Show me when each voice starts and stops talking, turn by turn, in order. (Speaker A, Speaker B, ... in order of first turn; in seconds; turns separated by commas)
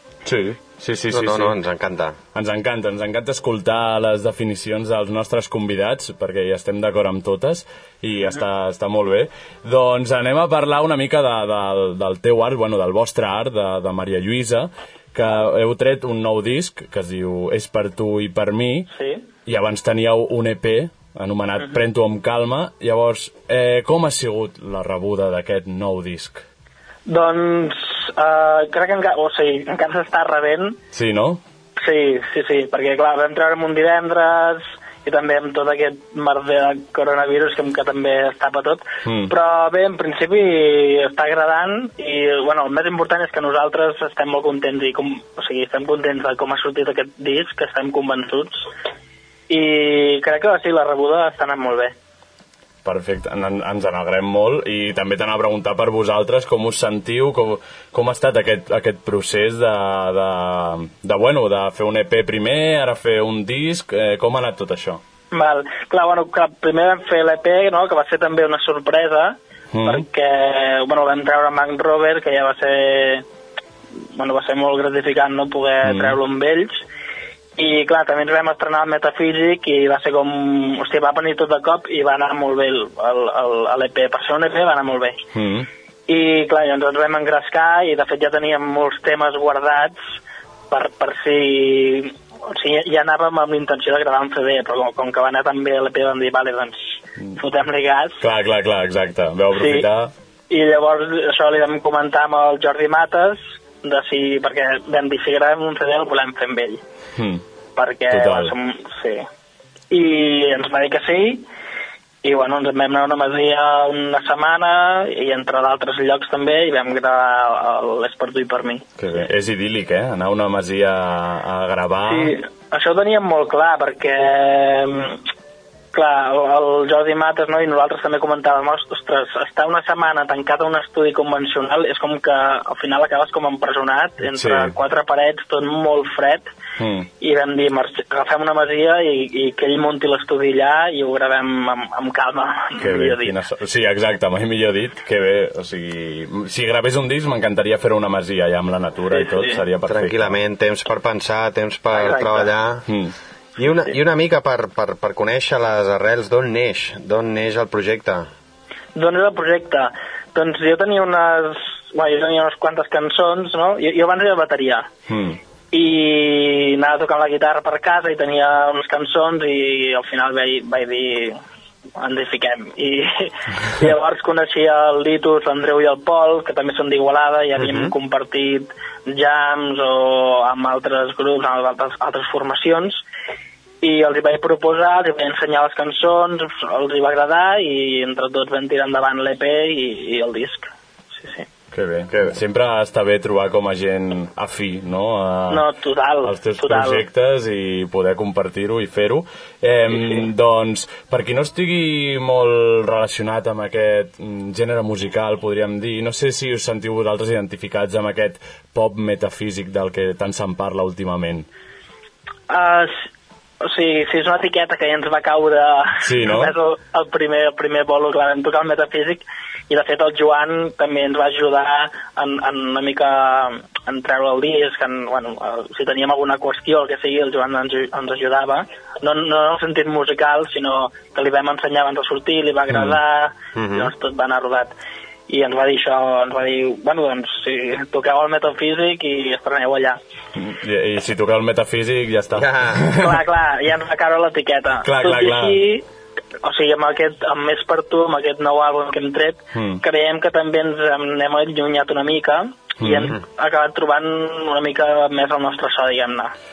Speaker A: 0.2-1.6, Speaker B: 1.1-2.2, Speaker A: 2.3-18.9, Speaker C: 18.9-19.2, Speaker A: 19.4-26.4, Speaker C: 27.1-30.8, Speaker A: 30.9-31.4, Speaker C: 31.8-48.7, Speaker A: 39.0-39.3, Speaker C: 49.5-51.9, Speaker A: 52.8-65.0, Speaker C: 65.3-73.2, Speaker A: 69.7-70.0, Speaker C: 74.1-76.8, Speaker A: 75.8-76.2, Speaker C: 77.5-85.2, Speaker A: 85.3-85.7, Speaker C: 86.1-90.0, Speaker C: 90.7-98.2, Speaker A: 98.2-100.1, Speaker C: 99.5-99.9, Speaker C: 100.5-106.8, Speaker A: 107.2-107.4, Speaker C: 107.8-109.2, Speaker A: 108.1-108.5, Speaker C: 109.9-111.5, Speaker C: 112.2-118.8, Speaker A: 119.1-122.3, Speaker C: 122.1-125.2, Speaker C: 125.9-136.5, Speaker A: 134.3-134.7, Speaker A: 136.8-137.1, Speaker C: 137.2-143.3, Speaker A: 142.8-150.3, Speaker C: 149.1-149.6, Speaker B: 149.9-152.9, Speaker C: 151.9-152.5, Speaker A: 152.9-153.1, Speaker B: 153.6-158.3, Speaker C: 158.9-164.9, Speaker A: 165.1-165.4, Speaker C: 165.7-171.4, Speaker C: 172.0-183.0, Speaker B: 177.6-177.9, Speaker C: 183.8-191.4, Speaker A: 191.7-195.7, Speaker C: 195.5-197.0, Speaker A: 196.2-211.5, Speaker C: 199.9-200.2, Speaker C: 212.5-213.1, Speaker C: 213.6-234.7, Speaker A: 216.0-216.5, Speaker A: 232.7-233.0, Speaker B: 233.5-233.9, Speaker C: 235.3-240.0, Speaker A: 240.3-243.1, Speaker B: 242.3-242.9, Speaker C: 242.9-245.8, Speaker A: 244.8-245.6, Speaker C: 246.4-256.3, Speaker A: 249.5-249.8, Speaker A: 252.8-253.2